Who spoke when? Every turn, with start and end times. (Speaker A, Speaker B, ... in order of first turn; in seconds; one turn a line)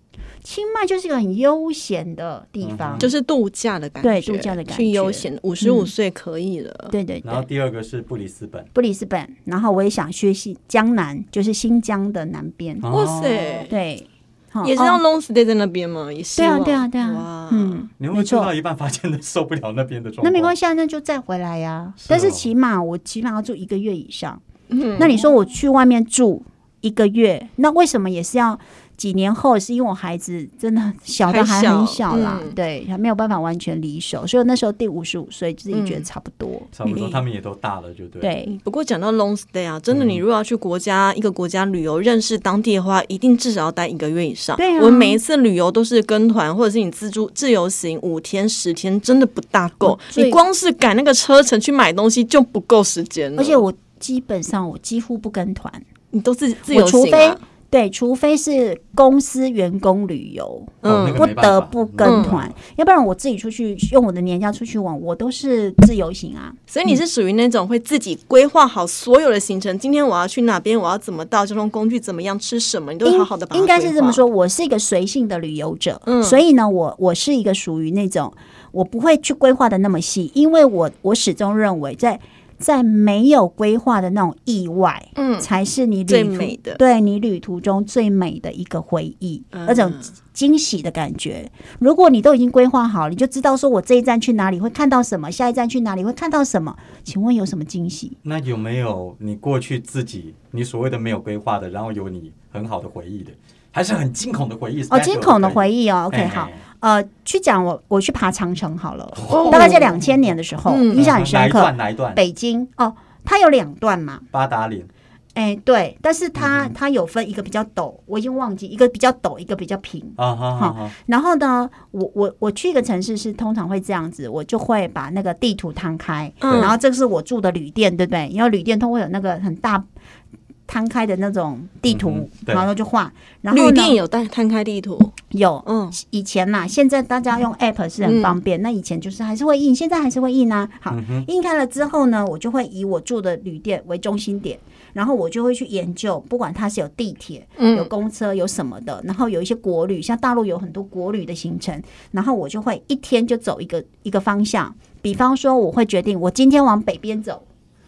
Speaker A: 0.4-3.1
Speaker B: 2.6-3.1
Speaker C: 3.0-6.9
Speaker A: 4.0-5.9
Speaker A: 6.9-7.5
Speaker B: 7.2-8.7
Speaker A: 8.7-12.9
Speaker B: 12.8-13.7
Speaker C: 12.9-13.7
Speaker A: 13.7-15.0
Speaker C: 14.6-17.8
Speaker A: 16.4-18.5
Speaker B: 18.0-20.5
Speaker A: 20.2-24.4
Speaker B: 22.0-22.5
Speaker C: 24.7-25.2
Speaker A: 25.0-37.2
Speaker C: 31.3-32.5
Speaker C: 35.7-36.1
Speaker B: 36.7-38.3
Speaker A: 38.2-38.5
Speaker C: 38.4-53.6
Speaker B: 39.9-40.2
Speaker A: 44.6-45.2
Speaker A: 49.8-50.4
Speaker A: 53.4-55.8
Speaker C: 56.1-57.4
Speaker A: 56.7-67.0
Speaker C: 60.8-61.2
Speaker B: 60.8-62.5
Speaker C: 62.0-62.3
Speaker C: 66.7-74.2
Speaker A: 73.0-98.2
Speaker C: 76.1-76.4
Speaker C: 85.2-85.5
Speaker C: 86.1-86.8
Speaker C: 89.5-90.1
Speaker B: 98.2-106.6
Speaker A: 104.9-114.2
Speaker B: 109.2-110.2
Speaker C: 109.3-109.9
Speaker C: 110.7-111.0
Speaker B: 110.9-112.2
Speaker B: 114.3-114.9
Speaker A: 115.3-129.8
Speaker B: 116.3-116.7
Speaker B: 120.2-120.9
Speaker C: 126.4-126.8
Speaker B: 126.5-126.7
Speaker A: 130.7-134.0
Speaker B: 131.9-132.7
Speaker C: 133.5-135.1
Speaker A: 135.3-157.4
Speaker C: 135.7-135.9
Speaker C: 138.0-138.4
Speaker B: 140.9-141.2
Speaker C: 147.6-147.9